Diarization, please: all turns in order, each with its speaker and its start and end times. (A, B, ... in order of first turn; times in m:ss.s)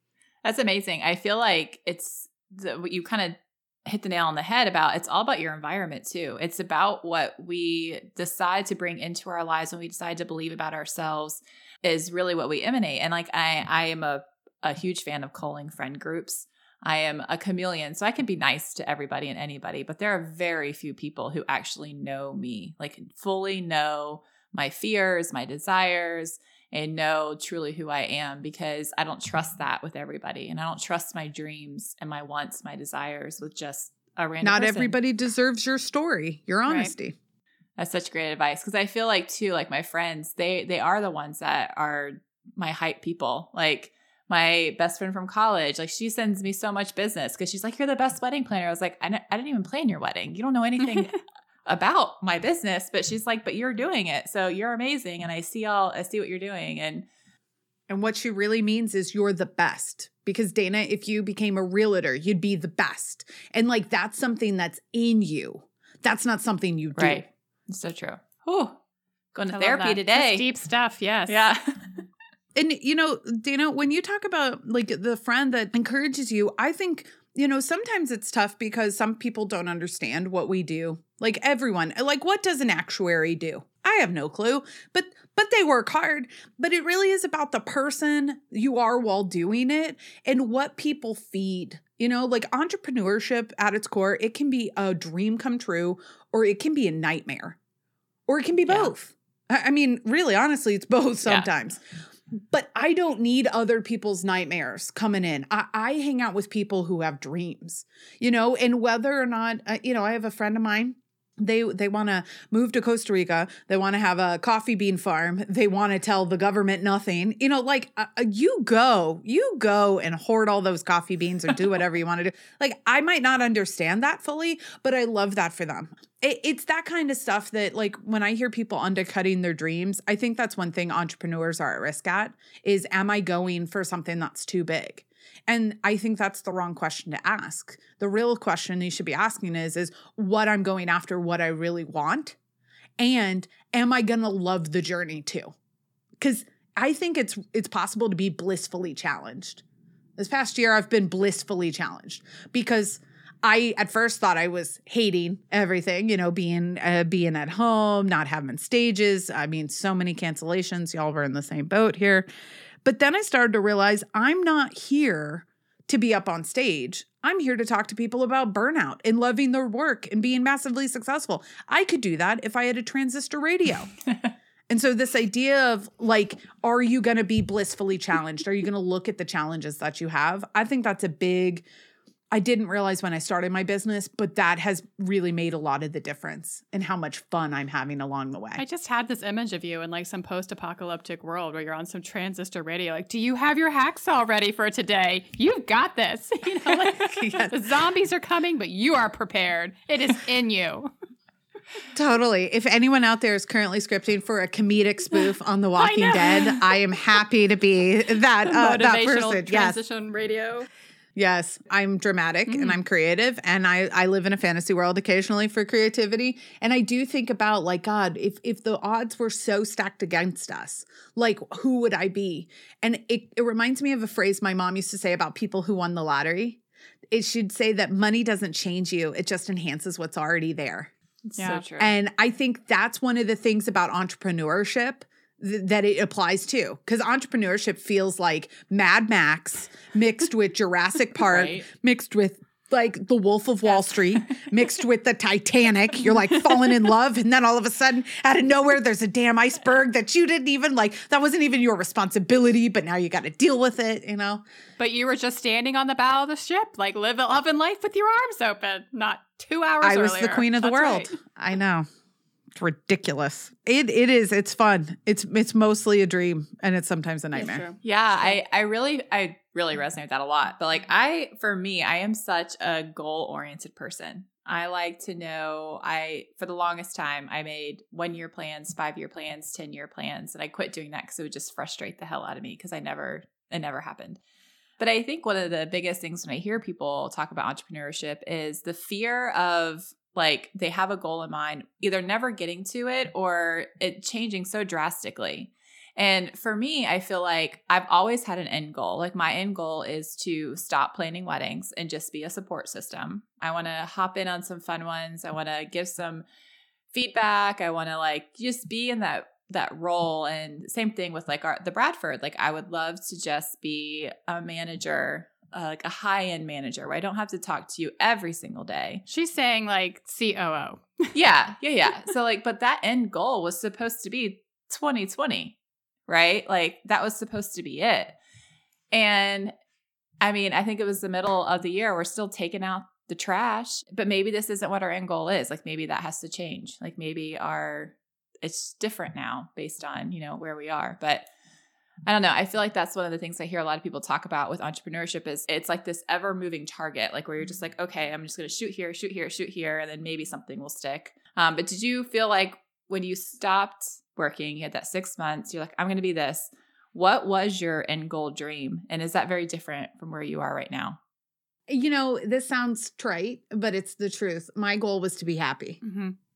0:00.4-0:34.9 A
0:34.4-0:37.1 B
0:36.6-0:36.9 C
0:37.8-0:51.1 A
0:50.9-0:51.1 C
0:51.6-0:57.1 A
0:57.9-1:07.2 B
1:07.0-1:08.8 A
1:09.3-1:10.5 A
1:09.5-1:11.4 C
1:11.3-1:11.9 A
1:12.5-1:37.6 B
1:38.3-1:41.8 B
1:38.7-1:38.9 A
1:42.3-2:22.4 B
2:23.0-2:25.5 B
2:26.2-2:29.6 B
2:30.2-2:42.2 B
2:42.8-2:53.9 B
2:54.7-3:01.6 B
3:02.3-3:08.6 B
3:08.6-3:20.9 C
3:16.7-3:17.6 B
3:21.9-3:29.8 B
3:25.8-3:26.8 C
3:28.4-3:30.7 C
3:31.2-3:50.9 B
3:32.5-3:32.8 C
3:51.4-3:51.6 C
3:51.4-3:51.9 A
3:51.8-4:14.4 B
4:01.2-4:01.6 A
4:14.8-4:21.2 C
4:19.8-4:21.9 B
4:22.5-4:27.6 B
4:27.3-4:27.8 C
4:27.8-4:44.2 A
4:44.8-5:06.2 A
5:06.9-5:19.0 A
5:19.1-5:21.1 C
5:21.1-5:25.6 A
5:26.1-5:28.2 A
5:28.9-5:29.5 A
5:30.2-5:41.3 A
5:42.1-6:01.0 A
6:01.7-6:05.8 B
6:05.8-6:06.1 C